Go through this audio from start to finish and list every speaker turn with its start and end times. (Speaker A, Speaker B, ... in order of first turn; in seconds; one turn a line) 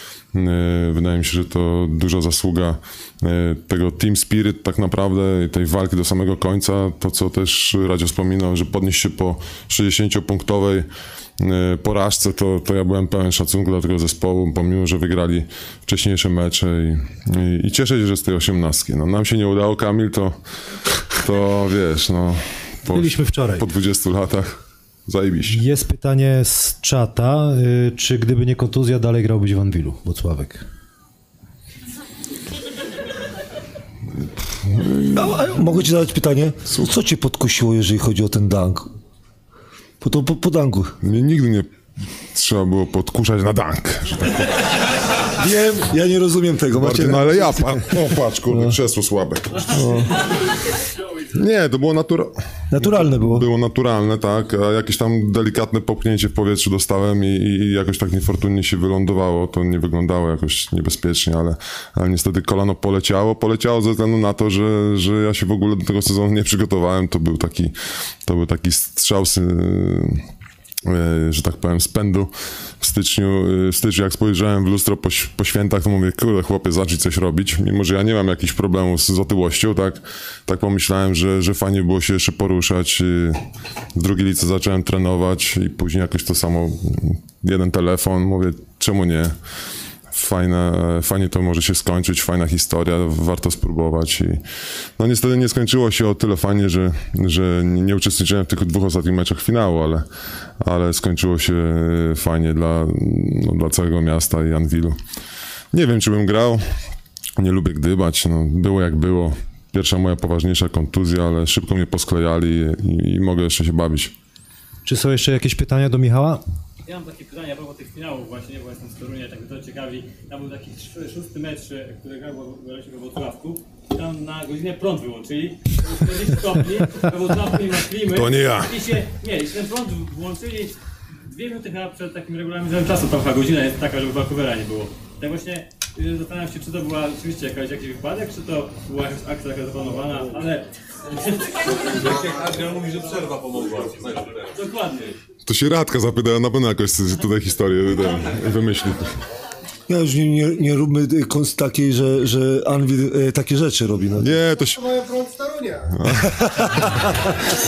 Speaker A: 0.3-10.9
Speaker A: 11.4-20.3
Speaker A: 21.2-25.6
Speaker B: 22.9-23.6
Speaker B: 25.5-30.6
Speaker C: 35.1-38.9
Speaker C: 40.0-40.9
Speaker A: 41.0-41.7
Speaker A: 42.3-44.5
Speaker C: 45.4-47.8
Speaker A: 46.8-50.0
Speaker C: 49.7-50.1
Speaker A: 51.3-70.2
Speaker C: 52.7-53.5
Speaker A: 70.9-83.4
Speaker A: 84.0-89.3
Speaker A: 90.1-94.4
Speaker A: 95.0-100.0
Speaker A: 100.6-105.0
Speaker A: 105.7-106.6
Speaker A: 107.4-114.1
Speaker B: 114.9-116.4
Speaker D: 116.9-130.7
Speaker A: 128.0-129.0
Speaker D: 131.3-141.5
Speaker E: 141.9-144.6
Speaker D: 144.5-145.1
Speaker A: 145.4-149.1
Speaker C: 149.9-154.4
Speaker A: 154.2-155.0
Speaker A: 156.0-156.3
Speaker C: 156.1-157.1